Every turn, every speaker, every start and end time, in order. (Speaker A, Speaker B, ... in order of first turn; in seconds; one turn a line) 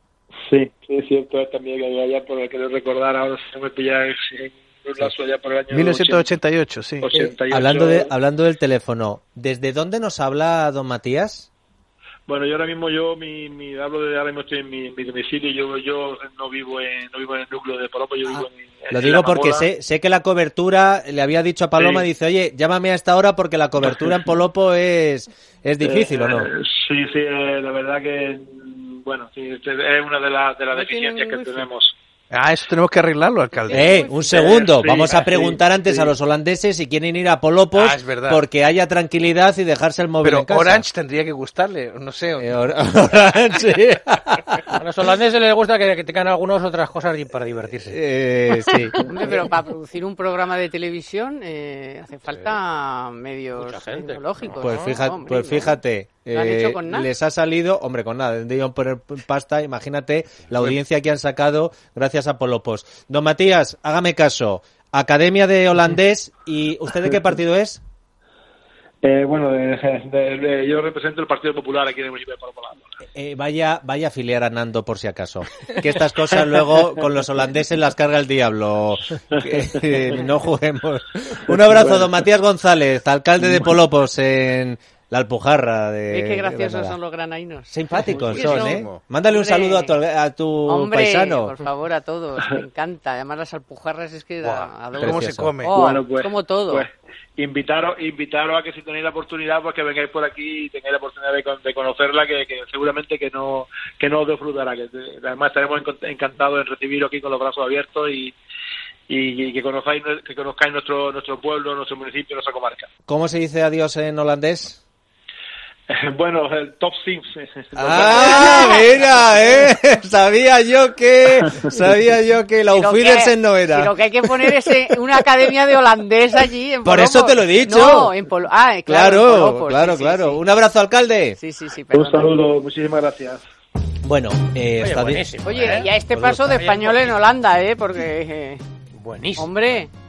Speaker A: 0.5-6.3
Speaker B: 5.7-7.2
Speaker A: 7.0-8.1
Speaker C: 7.5-11.5
Speaker A: 12.3-19.6
Speaker C: 18.9-26.5
Speaker A: 21.8-22.1
Speaker A: 25.8-31.9
Speaker D: 30.7-31.6
Speaker B: 32.3-34.1
Speaker D: 33.6-34.2
Speaker C: 33.7-40.8
Speaker A: 34.4-35.3
Speaker B: 37.7-38.4
Speaker B: 40.2-42.5
Speaker C: 42.4-44.6
Speaker E: 44.8-48.0
Speaker C: 47.9-49.0
Speaker D: 49.0-55.8
Speaker E: 53.6-54.9
Speaker C: 54.6-67.8
Speaker D: 56.3-57.1
Speaker A: 69.0-72.8
Speaker C: 73.1-87.0
Speaker A: 81.7-82.0
Speaker D: 86.1-90.0
Speaker C: 87.7-91.5
Speaker B: 88.1-89.0
Speaker D: 90.7-96.8
Speaker B: 94.4-96.0
Speaker C: 95.0-95.5
Speaker A: 95.7-108.3
Speaker A: 109.1-112.9
Speaker C: 113.1-114.8
Speaker A: 115.9-118.8
Speaker C: 117.8-124.6
Speaker D: 118.2-118.8
Speaker D: 122.7-130.4
Speaker C: 126.8-128.1
Speaker C: 128.9-131.4
Speaker D: 131.4-132.3
Speaker A: 131.9-133.4
Speaker C: 134.0-135.3
Speaker E: 134.8-137.2
Speaker D: 135.4-138.6
Speaker C: 136.1-136.6
Speaker E: 138.9-139.7
Speaker D: 139.4-139.9